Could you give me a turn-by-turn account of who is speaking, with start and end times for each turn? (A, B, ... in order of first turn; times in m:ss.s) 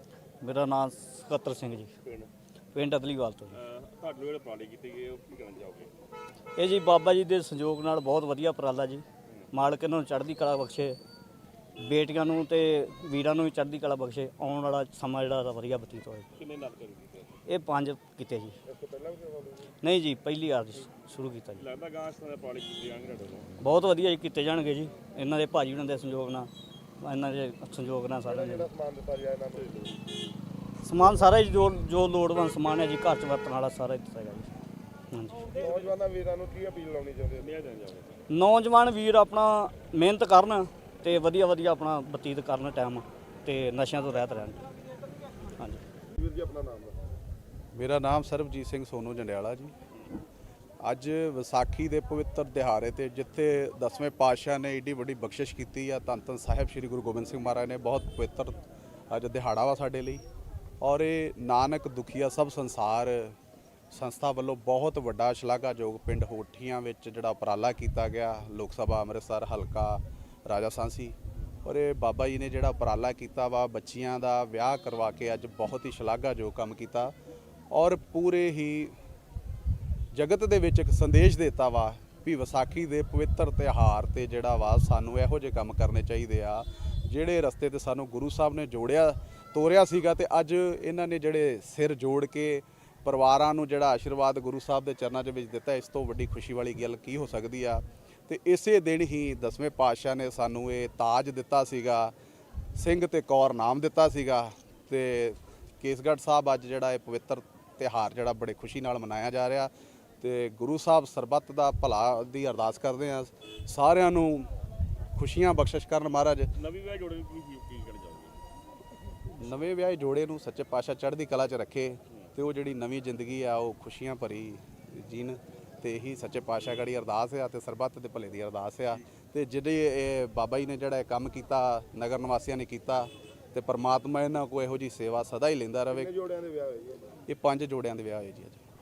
0:00.4-0:01.9 A
0:02.0-0:02.3 B
0:02.7-0:03.6 A
0:03.5-0:06.0 B
0:06.6-0:11.0 A
0:11.8-0:16.3 A
0:16.4-0:17.4 B
0:17.5-0:18.6 A
0:18.7-0:19.7 C
0:19.8-0:21.6 A
0:21.6-0:23.5 B
0:23.6-0:26.5 A
0:27.0-0:28.7 A
0:28.2-0:29.8 C
0:29.6-0:30.0 B
0:30.8-0:34.5 A
0:35.1-0:35.6 A
0:35.5-0:37.5 C
0:37.4-0:38.2 B
0:38.3-0:44.6 A
0:45.6-0:45.8 A
0:46.1-0:46.9 C
0:47.7-0:49.7 D
0:50.8-0:58.6 D
0:59.1-1:00.2 D
1:00.8-1:03.4 D
1:03.9-1:17.1 D
1:17.7-1:19.0 D
1:20.1-1:42.1 D
1:42.8-1:54.5 D
1:55.1-1:56.5 D
1:56.5-1:58.4 B
1:59.3-2:16.1 D
2:15.9-2:17.2 C
2:17.3-2:18.6 D